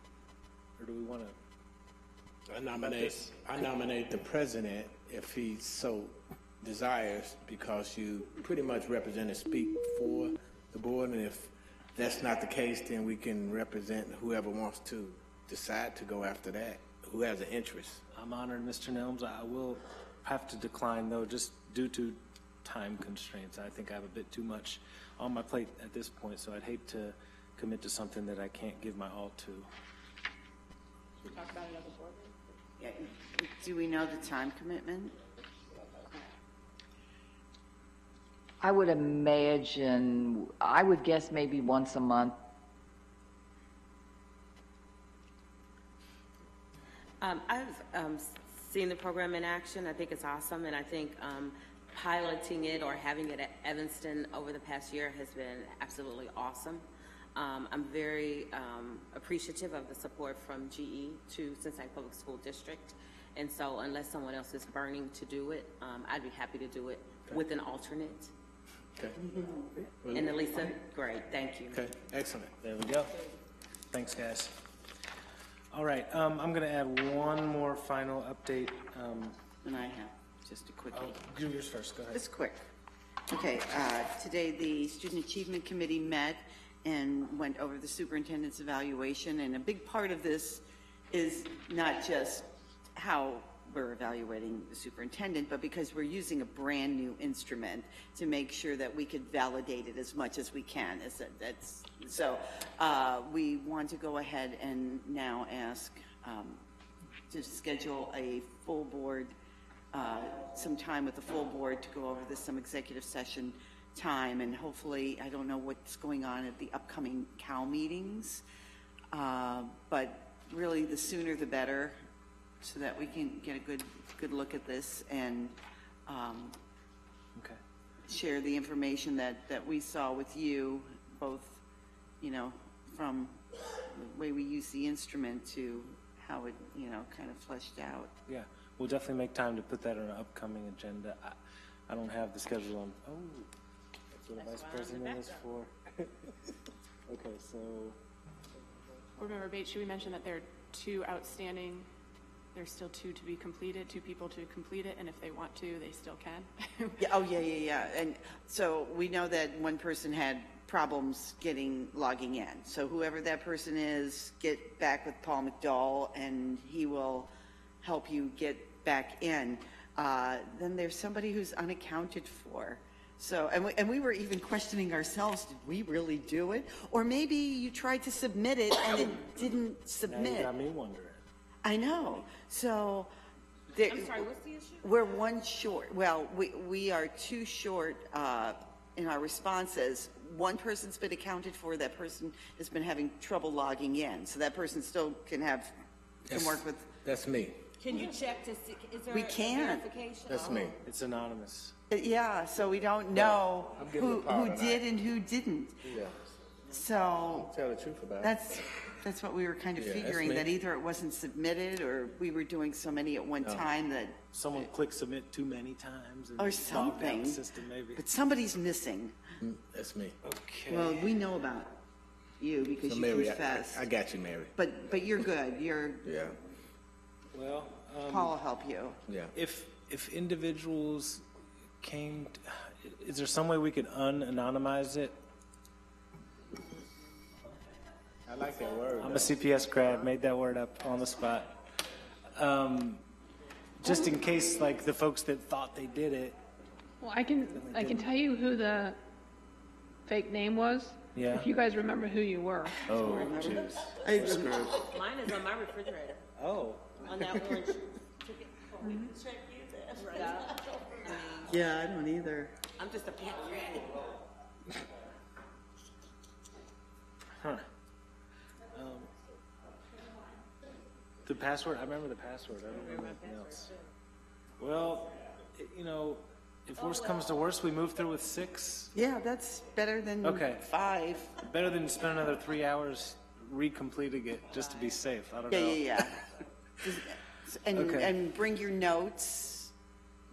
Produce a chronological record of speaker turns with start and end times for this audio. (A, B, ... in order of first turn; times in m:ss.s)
0:00.8-0:01.4 A
0:02.5-0:18.0 B
0:02.8-0:03.2 A
0:18.2-0:29.7 A
0:31.2-0:32.4 C
0:32.8-0:35.2 D
0:38.6-0:42.4 E
0:47.2-1:08.3 F
1:10.0-1:10.7 B
1:10.1-1:11.8 F
1:11.7-1:12.5 B
1:12.6-1:13.1 A
1:13.9-1:14.6 A
1:15.7-1:19.4 A
1:19.6-1:21.2 D
1:20.9-1:22.2 A
1:22.1-1:22.6 D
1:23.3-1:46.6 D
1:47.3-1:49.3 D
1:49.9-1:58.4 D
1:59.1-2:02.0 D
2:02.6-2:06.6 D
2:08.1-2:11.6 D
2:12.2-2:18.1 D
2:18.3-2:21.4 A
2:21.9-2:23.5 A
2:24.1-2:26.3 A
2:24.4-2:25.4 F
2:27.1-2:28.0 A
2:29.2-2:31.9 C
2:32.5-2:37.1 C
2:37.0-2:47.3 D
2:47.8-3:00.5 D
3:00.1-3:01.2 A
3:01.6-3:03.1 D
3:03.7-3:04.3 D
3:03.8-3:04.9 F
3:04.8-3:15.7 D
3:16.3-3:16.9 D
3:16.3-3:17.6 B
3:17.8-3:20.8 F
3:19.1-3:19.9 D
3:20.3-3:20.8 B
3:20.8-3:21.8 A
3:21.9-3:25.8 D
3:23.1-3:24.8 B
3:25.8-3:26.2 B
3:26.7-3:27.5 D
3:27.3-3:28.4 B
3:28.2-3:34.2 D
3:29.8-3:30.5 B
3:33.4-3:33.7 B
3:34.3-3:38.0 A
3:36.4-3:37.4 D
3:38.0-3:39.2 D
3:39.4-3:40.2 B
3:40.2-3:41.0 A
3:40.7-3:41.8 D
3:42.4-3:43.9 D
3:42.8-3:44.6 B
3:44.6-3:46.1 D
3:46.0-3:46.4 B
3:47.3-3:48.3 A
3:48.1-3:49.0 D
3:49.1-3:49.3 B
3:49.3-3:51.2 A
3:51.8-3:55.2 A
3:58.3-3:59.4 B
3:59.0-4:01.6 A
4:02.4-4:03.0 A
4:03.8-4:06.4 A
4:07.0-4:09.0 G
4:07.5-4:08.1 A
4:10.1-4:12.9 G
4:11.1-4:11.5 A
4:12.8-4:14.8 A
4:12.9-4:15.0 D
4:14.8-4:16.2 F
4:16.4-4:17.0 A
4:17.0-4:19.1 F
4:20.0-4:21.5 F
4:21.4-4:22.6 D
4:22.8-4:24.2 F
4:27.4-4:27.6 A
4:28.7-4:29.1 A
4:31.2-4:33.7 A
4:32.8-4:33.8 F
4:34.6-4:38.9 A
4:38.9-4:41.3 D
4:40.2-4:40.6 A
4:41.4-4:46.1 A
4:45.5-4:46.2 D
4:46.8-4:49.7 D
4:47.8-4:48.1 A